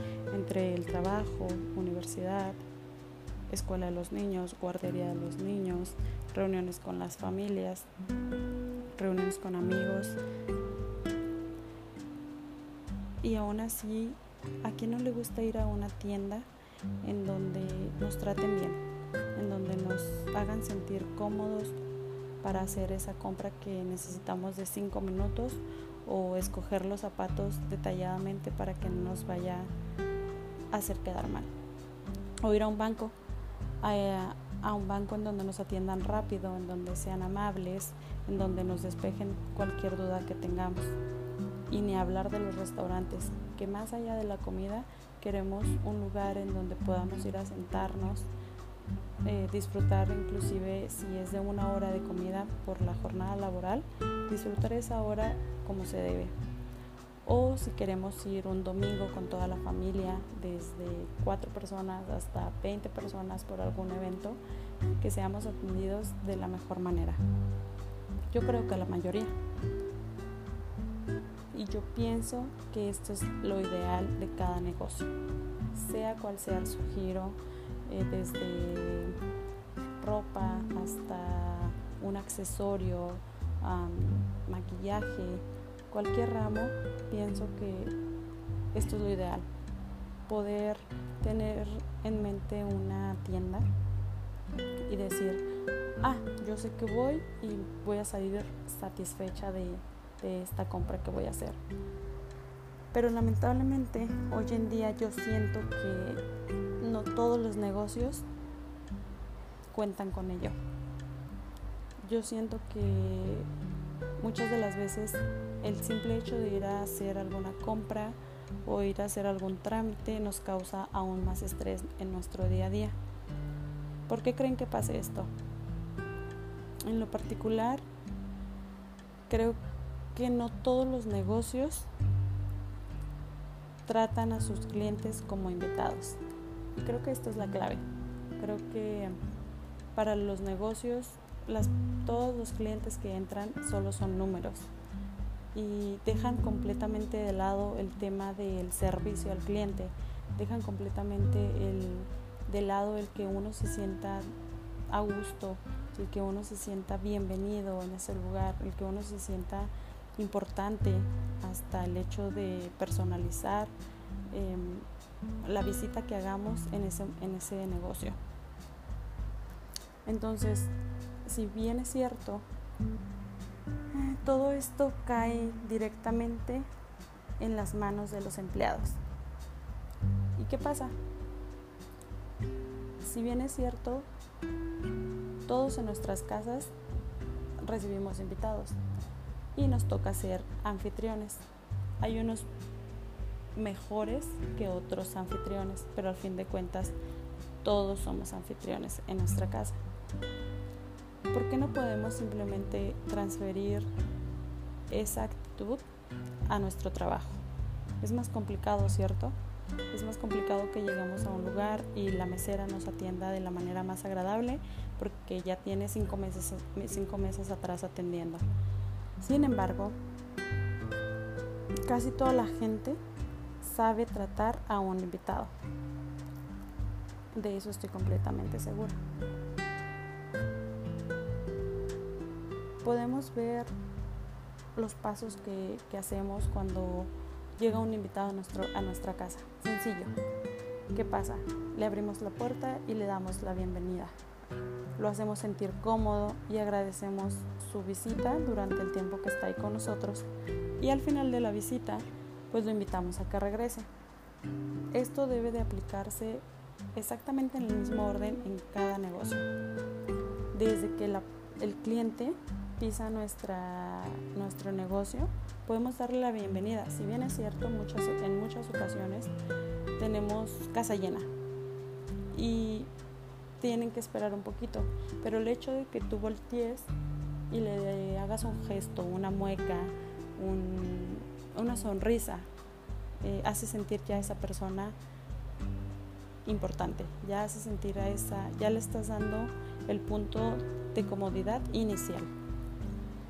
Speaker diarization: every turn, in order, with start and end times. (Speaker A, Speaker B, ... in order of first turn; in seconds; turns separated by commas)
Speaker A: 0.3-2.6, Speaker A: 3.5-7.9, Speaker A: 8.9-10.2, Speaker A: 13.2-16.5, Speaker A: 17.0-18.8, Speaker A: 19.3-21.8, Speaker A: 22.4-29.7, Speaker A: 30.7-31.5, Speaker A: 32.4-33.1, Speaker A: 33.8-41.0, Speaker A: 41.7-48.3, Speaker A: 49.2-56.3, Speaker A: 57.2-64.4, Speaker A: 65.0-67.2, Speaker A: 68.3-69.3, Speaker A: 71.5-75.1, Speaker A: 75.7-79.2, Speaker A: 80.0-88.0, Speaker A: 88.7-89.5, Speaker A: 90.3-93.7, Speaker A: 94.9-95.4, Speaker A: 96.0-101.6, Speaker A: 102.9-106.2, Speaker A: 106.8-108.2, Speaker A: 109.7-110.6, Speaker A: 112.0-113.5, Speaker A: 114.2-123.0, Speaker A: 124.1-125.3, Speaker A: 126.8-127.8, Speaker A: 129.3-129.6, Speaker A: 130.1-131.9, Speaker A: 133.8-136.2, Speaker A: 136.7-137.8, Speaker A: 138.4-139.2, Speaker A: 139.9-144.7, Speaker A: 145.5-154.3, Speaker A: 154.9-163.7, Speaker A: 164.3-164.9, Speaker A: 165.4-168.2, Speaker A: 170.0-170.7, Speaker A: 171.2-172.4, Speaker A: 173.9-176.7, Speaker A: 177.4-179.0, Speaker A: 180.3-180.9, Speaker A: 183.0-184.1, Speaker A: 185.4-186.7, Speaker A: 187.6-188.8, Speaker A: 189.5-191.4, Speaker A: 192.0-192.5, Speaker A: 193.5-196.9, Speaker A: 197.6-199.8, Speaker A: 201.3-203.9, Speaker A: 204.9-205.8, Speaker A: 206.5-207.4, Speaker A: 208.0-209.3, Speaker A: 209.9-218.4, Speaker A: 219.2-220.0, Speaker A: 221.8-223.0, Speaker A: 223.6-225.5, Speaker A: 227.3-229.0, Speaker A: 232.8-233.7, Speaker A: 234.7-240.1, Speaker A: 240.9-244.2, Speaker A: 245.0-250.3, Speaker A: 250.8-253.9, Speaker A: 254.9-259.5, Speaker A: 260.5-269.3, Speaker A: 270.0-271.3, Speaker A: 272.3-272.9, Speaker A: 273.6-276.9, Speaker A: 277.5-282.5, Speaker A: 283.2-284.9, Speaker A: 286.4-292.3